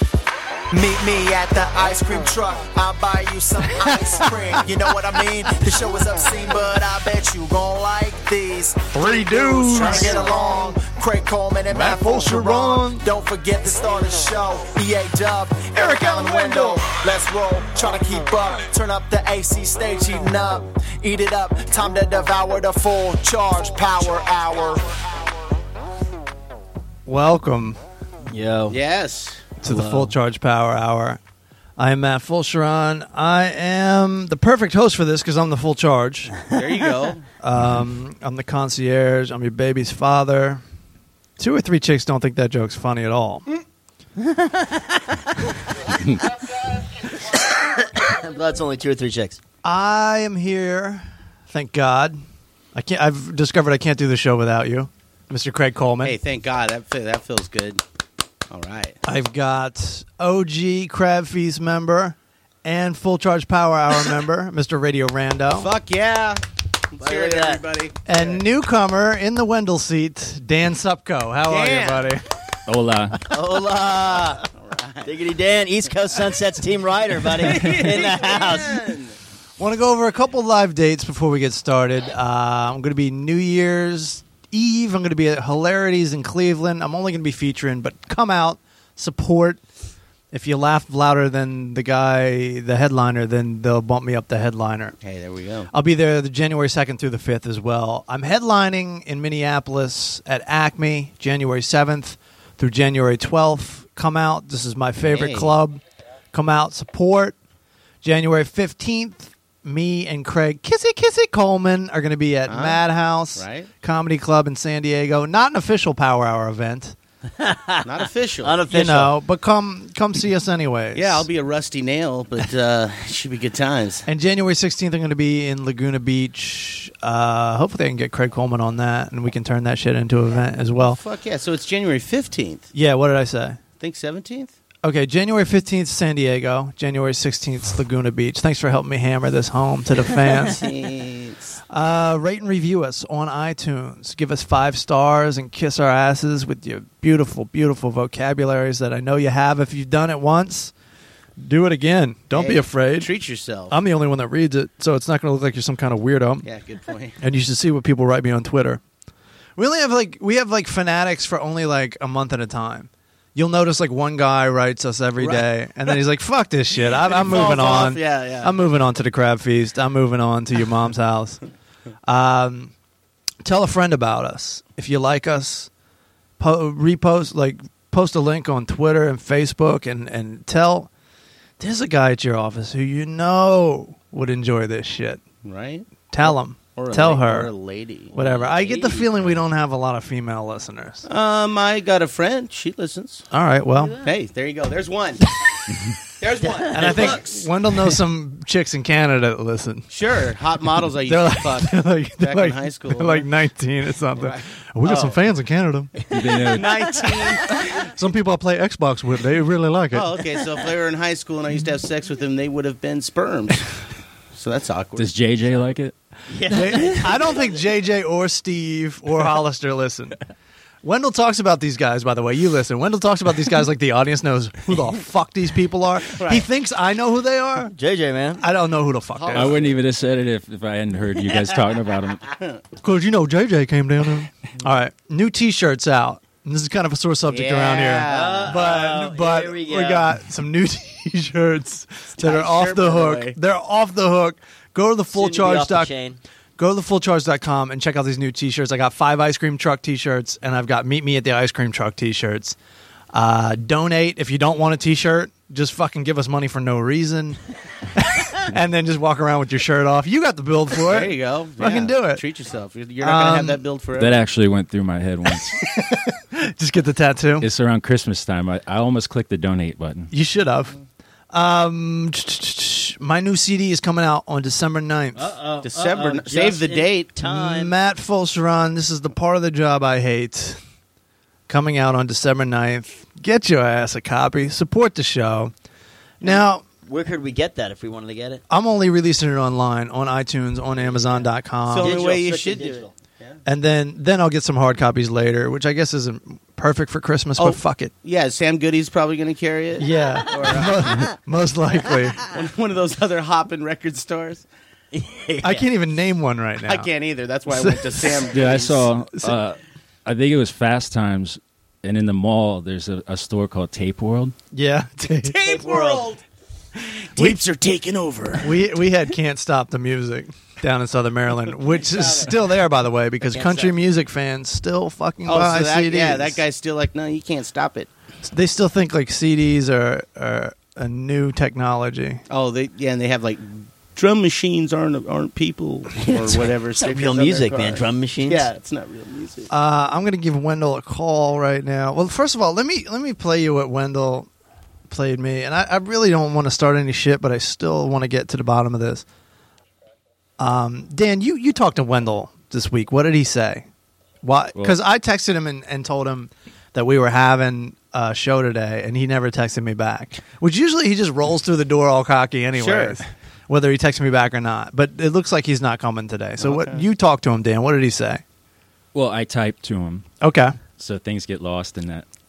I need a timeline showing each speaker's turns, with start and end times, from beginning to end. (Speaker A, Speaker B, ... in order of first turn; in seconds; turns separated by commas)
Speaker A: 0.7-25.0, Speaker B: 4.0-4.6, Speaker B: 8.9-10.3, Speaker C: 9.8-10.1, Speaker B: 11.7-13.0, Speaker B: 15.7-16.9, Speaker B: 27.1-27.8, Speaker D: 28.3-28.8, Speaker C: 28.7-30.1, Speaker B: 29.6-31.2, Speaker B: 31.8-36.4, Speaker C: 36.5-37.2, Speaker B: 37.4-40.6, Speaker B: 41.4-43.5, Speaker D: 44.2-45.2, Speaker D: 47.1-49.4, Speaker B: 49.6-52.2, Speaker B: 52.7-56.2, Speaker C: 56.0-57.8, Speaker C: 58.5-59.0, Speaker B: 59.0-65.7, Speaker C: 65.5-68.3, Speaker D: 67.0-67.6, Speaker B: 68.0-72.3, Speaker C: 71.5-72.1, Speaker E: 72.7-73.2, Speaker D: 73.2-74.4, Speaker C: 74.0-75.1, Speaker D: 75.0-78.8, Speaker C: 77.3-79.1, Speaker B: 79.6-89.6, Speaker B: 90.3-95.0, Speaker C: 95.0-95.7, Speaker B: 95.7-105.8, Speaker C: 105.1-105.5, Speaker B: 106.3-107.3, Speaker B: 108.0-117.0, Speaker C: 112.5-112.8, Speaker C: 113.3-113.7, Speaker D: 117.4-117.9, Speaker C: 117.8-118.6, Speaker D: 118.4-119.1, Speaker B: 118.7-121.3, Speaker C: 120.9-124.0, Speaker B: 124.0-131.0, Speaker C: 130.8-132.7, Speaker B: 132.7-133.6, Speaker C: 133.8-134.5, Speaker B: 134.8-140.7, Speaker C: 140.4-141.6, Speaker B: 141.7-150.7, Speaker B: 151.4-153.1, Speaker C: 152.3-153.8, Speaker B: 153.7-156.4, Speaker C: 156.4-157.2, Speaker B: 157.2-158.8, Speaker B: 159.6-171.4, Speaker C: 165.2-165.4, Speaker C: 167.1-168.5, Speaker B: 172.0-172.7, Speaker B: 173.4-175.7, Speaker B: 176.4-180.9, Speaker B: 181.6-185.2, Speaker C: 185.4-189.4, Speaker B: 186.1-187.5, Speaker B: 188.1-191.1, Speaker C: 191.1-193.3, Speaker B: 193.3-194.0, Speaker C: 193.9-195.3, Speaker C: 196.1-197.5, Speaker D: 196.4-197.1, Speaker B: 196.7-199.9, Speaker C: 199.9-203.2, Speaker B: 201.0-205.9, Speaker C: 204.2-205.2, Speaker E: 206.1-207.1, Speaker C: 206.1-207.8, Speaker B: 207.7-210.1, Speaker C: 209.9-213.7, Speaker C: 214.3-215.1, Speaker E: 214.9-215.9, Speaker D: 216.3-217.6, Speaker B: 216.5-220.2, Speaker B: 220.8-227.7, Speaker C: 226.1-226.4, Speaker D: 227.7-228.4, Speaker B: 228.4-229.6, Speaker C: 229.2-229.8, Speaker E: 229.3-232.3, Speaker C: 232.3-232.6, Speaker B: 232.8-245.9, Speaker C: 237.3-238.6, Speaker D: 238.1-240.1, Speaker C: 242.2-243.4, Speaker D: 245.1-246.2, Speaker B: 246.6-252.6, Speaker B: 253.1-257.4, Speaker B: 257.9-262.2, Speaker C: 260.8-264.2, Speaker B: 263.0-263.6, Speaker E: 264.0-265.6, Speaker B: 265.5-267.5, Speaker E: 267.4-270.1, Speaker B: 270.1-270.7, Speaker B: 271.3-275.3, Speaker D: 275.1-277.7, Speaker C: 275.6-277.1, Speaker B: 277.2-280.6, Speaker B: 281.5-285.5, Speaker B: 286.2-286.6, Speaker D: 286.2-288.4, Speaker B: 288.5-292.0, Speaker C: 291.7-293.4, Speaker D: 291.8-292.9, Speaker B: 293.4-297.9, Speaker C: 297.4-300.7, Speaker B: 299.8-302.2, Speaker D: 300.3-301.0, Speaker C: 302.3-304.4, Speaker D: 304.9-305.7, Speaker B: 305.4-306.9, Speaker C: 306.6-309.3, Speaker B: 307.5-308.0, Speaker E: 308.3-314.3, Speaker B: 314.5-315.4, Speaker C: 315.2-316.2, Speaker D: 315.4-316.1, Speaker C: 316.8-318.6, Speaker B: 317.1-317.4, Speaker B: 318.4-326.4, Speaker D: 321.7-322.3, Speaker D: 323.3-323.7, Speaker C: 325.2-327.9, Speaker B: 328.2-332.2, Speaker C: 332.3-339.5, Speaker D: 336.0-338.5, Speaker B: 339.5-344.3, Speaker B: 344.9-349.0, Speaker B: 350.4-353.6, Speaker B: 354.2-368.2, Speaker C: 362.5-363.1, Speaker C: 366.4-366.8, Speaker E: 368.9-370.1, Speaker B: 370.2-370.6, Speaker E: 370.8-372.1